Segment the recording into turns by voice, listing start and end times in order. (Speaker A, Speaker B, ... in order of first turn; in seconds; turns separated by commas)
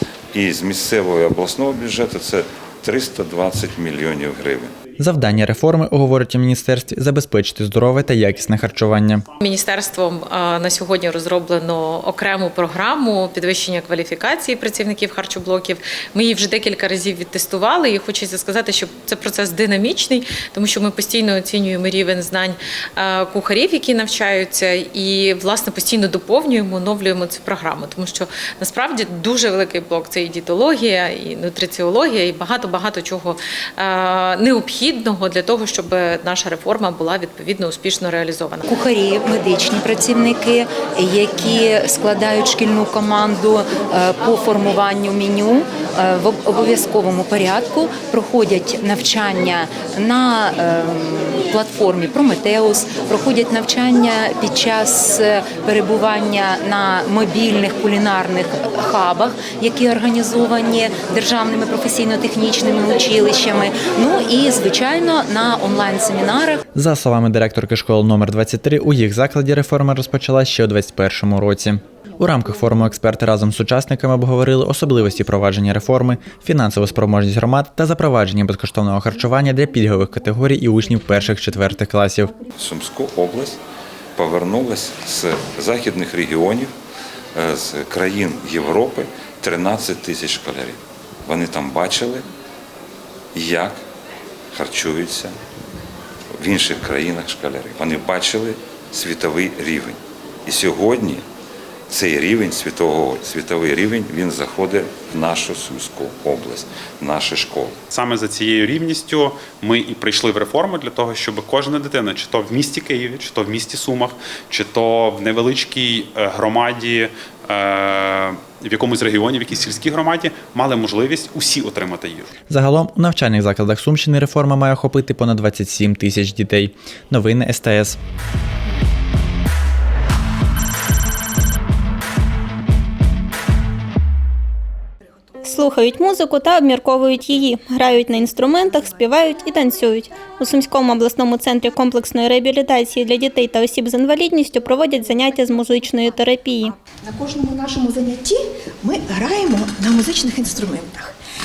Speaker A: 0.3-4.7, Speaker B: 5.0-9.2, Speaker C: 9.4-38.7, Speaker D: 38.7-66.6, Speaker B: 66.7-82.3, Speaker A: 82.6-83.6, Speaker A: 84.2-86.7, Speaker A: 87.4-92.2, Speaker A: 93.3-93.8, Speaker A: 94.5-95.3, Speaker A: 96.4-101.2, Speaker A: 101.9-107.8, Speaker E: 107.9-122.3, Speaker B: 122.5-128.0, Speaker F: 135.4-146.7, Speaker G: 147.0-151.1